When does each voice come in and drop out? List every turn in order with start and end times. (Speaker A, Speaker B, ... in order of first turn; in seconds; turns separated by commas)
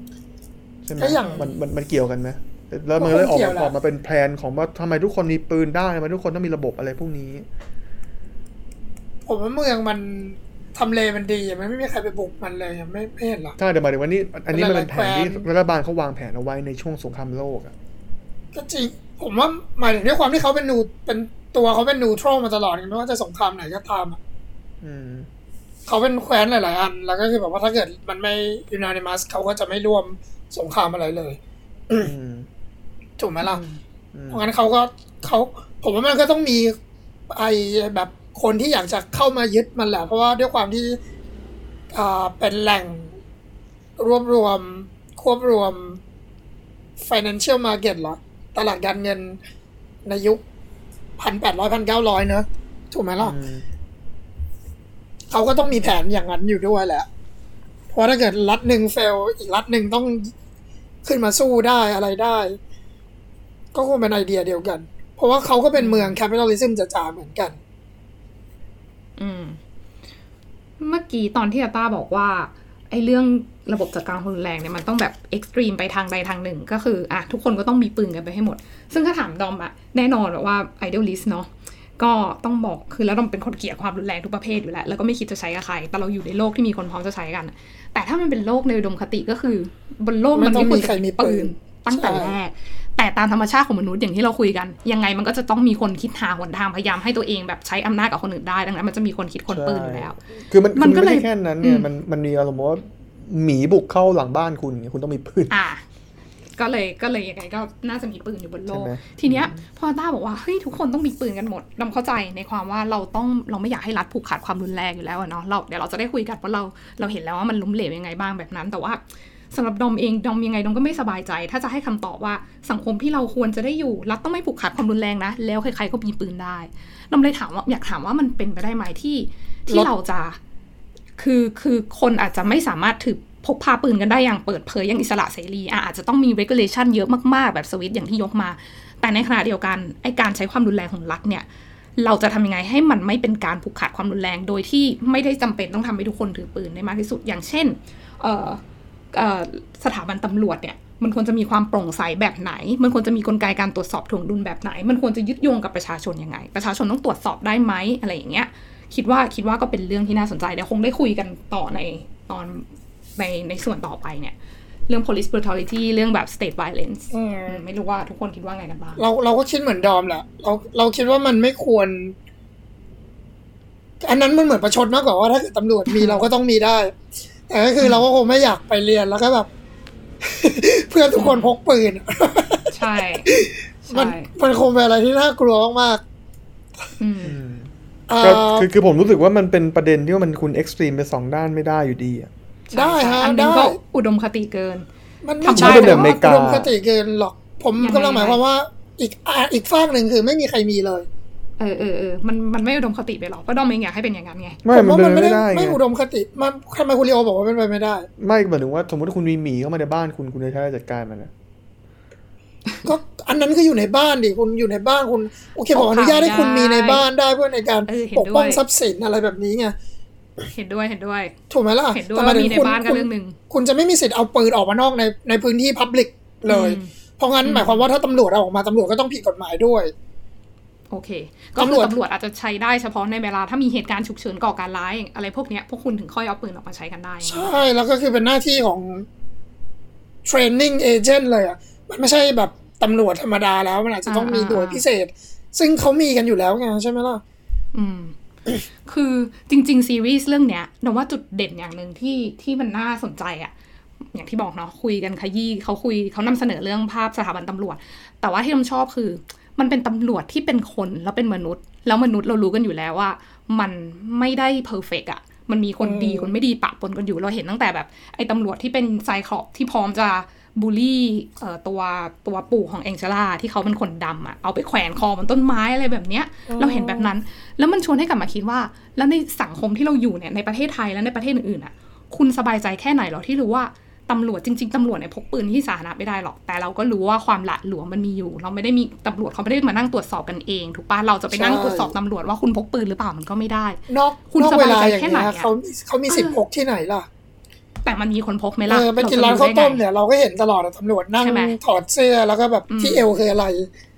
Speaker A: 0.8-7.5, Speaker B: 1.0-1.5, Speaker B: 3.0-3.7, Speaker B: 9.2-13.6, Speaker A: 13.6-17.7, Speaker B: 14.5-15.5, Speaker B: 18.5-24.2, Speaker A: 24.8-25.3, Speaker B: 25.9-32.1, Speaker A: 32.0-32.5, Speaker B: 33.2-33.6, Speaker C: 33.4-33.8, Speaker A: 34.1-34.5, Speaker B: 34.3-36.7, Speaker B: 37.3-41.0, Speaker B: 41.9-43.1, Speaker B: 44.0-46.0, Speaker B: 47.0-49.4, Speaker B: 50.0-50.4, Speaker B: 51.2-53.4, Speaker A: 53.2-53.6, Speaker B: 55.3-57.1, Speaker B: 57.9-60.3, Speaker B: 61.0-62.6, Speaker B: 63.7-67.6, Speaker C: 65.7-66.2, Speaker C: 69.2-69.6, Speaker C: 70.8-100.2, Speaker B: 90.3-92.4, Speaker A: 99.5-105.5, Speaker C: 100.8-101.9, Speaker C: 105.5-105.8, Speaker C: 106.5-130.4, Speaker A: 108.7-109.6, Speaker C: 131.2-141.4, Speaker C: 142.0-148.6, Speaker C: 149.1-164.3, Speaker C: 164.9-169.1, Speaker B: 167.1-167.6, Speaker B: 169.0-172.1, Speaker B: 174.0-179.5, Speaker C: 175.9-176.3, Speaker B: 180.2-186.0, Speaker C: 181.1-181.5, Speaker C: 182.7-183.3, Speaker C: 183.8-184.3, Speaker C: 187.0-187.3, Speaker A: 187.2-192.3, Speaker B: 188.1-188.7, Speaker C: 192.7-194.9, Speaker B: 192.7-193.8, Speaker B: 195.2-201.1, Speaker C: 195.4-196.3, Speaker A: 195.5-196.7, Speaker C: 197.8-198.4, Speaker C: 201.6-204.6, Speaker A: 204.6-205.8, Speaker B: 204.7-208.1, Speaker A: 208.2-211.3, Speaker B: 212.8-219.8, Speaker C: 215.7-217.1, Speaker C: 217.9-218.6, Speaker C: 220.5-221.3, Speaker B: 221.5-229.9, Speaker C: 221.9-223.4, Speaker C: 226.5-226.9, Speaker C: 227.4-227.8, Speaker C: 230.9-237.6, Speaker B: 231.6-232.0, Speaker B: 237.2-239.1, Speaker B: 240.2-247.2, Speaker C: 244.1-244.8, Speaker C: 247.7-248.1, Speaker C: 248.8-253.5, Speaker C: 254.1-293.8, Speaker B: 265.8-266.3, Speaker A: 276.5-277.1, Speaker B: 291.3-291.9, Speaker B: 293.9-297.1, Speaker C: 294.3-295.5, Speaker C: 296.1-296.4, Speaker C: 297.8-299.8, Speaker B: 298.7-303.7, Speaker C: 301.2-301.6, Speaker C: 302.7-303.1